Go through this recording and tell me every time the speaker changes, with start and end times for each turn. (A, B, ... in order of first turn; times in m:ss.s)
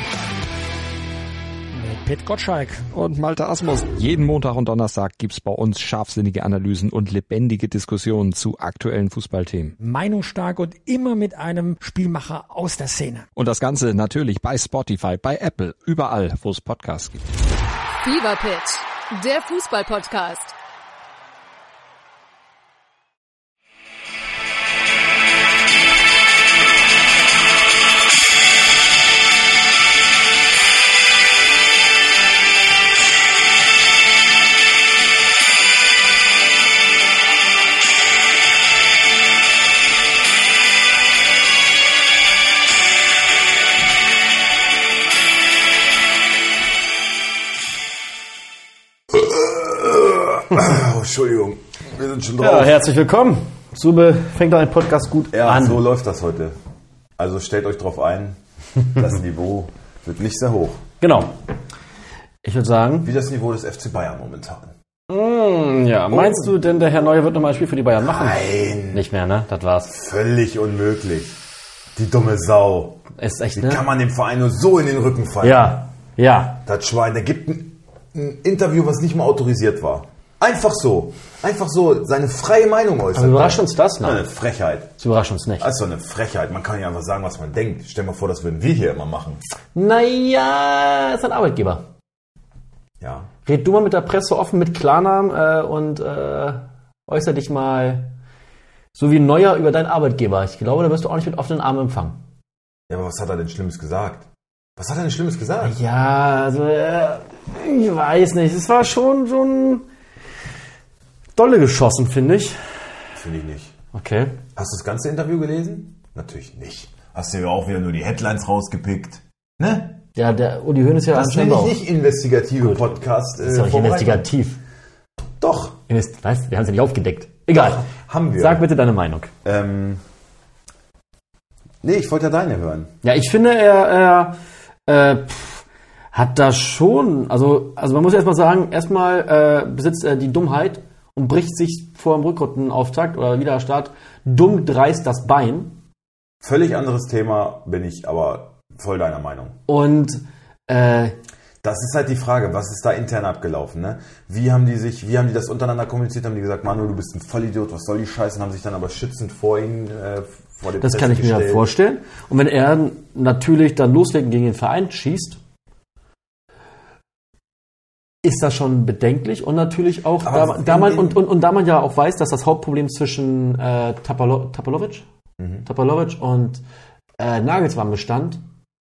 0:01.7-0:02.9 A
0:02.9-0:09.8 B
0:09.8-0:13.3 A
0:13.4-0:17.2 B
0:18.0-0:20.5 C
0:49.1-0:52.8 D
0:52.4-0:55.9 E
0:55.3-0:56.6 D
0:57.2-0:58.4 D
0:58.9-1:00.8 D
1:01.0-1:01.4 E
1:02.4-1:03.1 E
1:03.0-1:04.8 D
1:05.1-1:09.9 E
1:06.1-1:06.5 D
1:08.0-1:09.1 D
1:09.9-1:11.4 D
1:12.0-1:13.0 D
1:13.2-1:13.8 E
1:13.5-1:15.8 D
1:15.4-1:16.6 E
1:16.6-1:24.9 D
1:23.1-1:24.3 E
1:25.0-1:25.7 E
1:25.6-1:29.4 D
1:29.8-1:31.8 E
1:33.0-1:33.3 D
1:33.4-1:38.1 E
1:38.9-1:42.2 E
1:42.9-1:45.8 D
1:45.6-1:49.9 E
1:51.4-1:52.9 E
1:53.2-1:53.8 D
1:53.9-1:54.4 E
1:54.6-2:00.0 D
2:00.2-2:01.8 E
2:01.1-2:04.3 D
2:02.6-2:04.6 E
2:05.4-2:05.8 D
2:05.9-2:07.9 E
2:07.5-2:08.7 D
2:08.4-2:09.3 E
2:09.4-2:10.0 D
2:11.8-2:12.9 D
2:13.0-2:25.8 E
2:26.4-2:29.6 D
2:29.7-2:31.2 E
2:31.6-2:41.7 D
2:40.8-2:45.4 E
2:48.2-2:55.1 E
2:50.2-2:51.2 D
2:55.4-2:55.7 D
2:55.6-2:56.6 E
2:57.2-2:58.4 E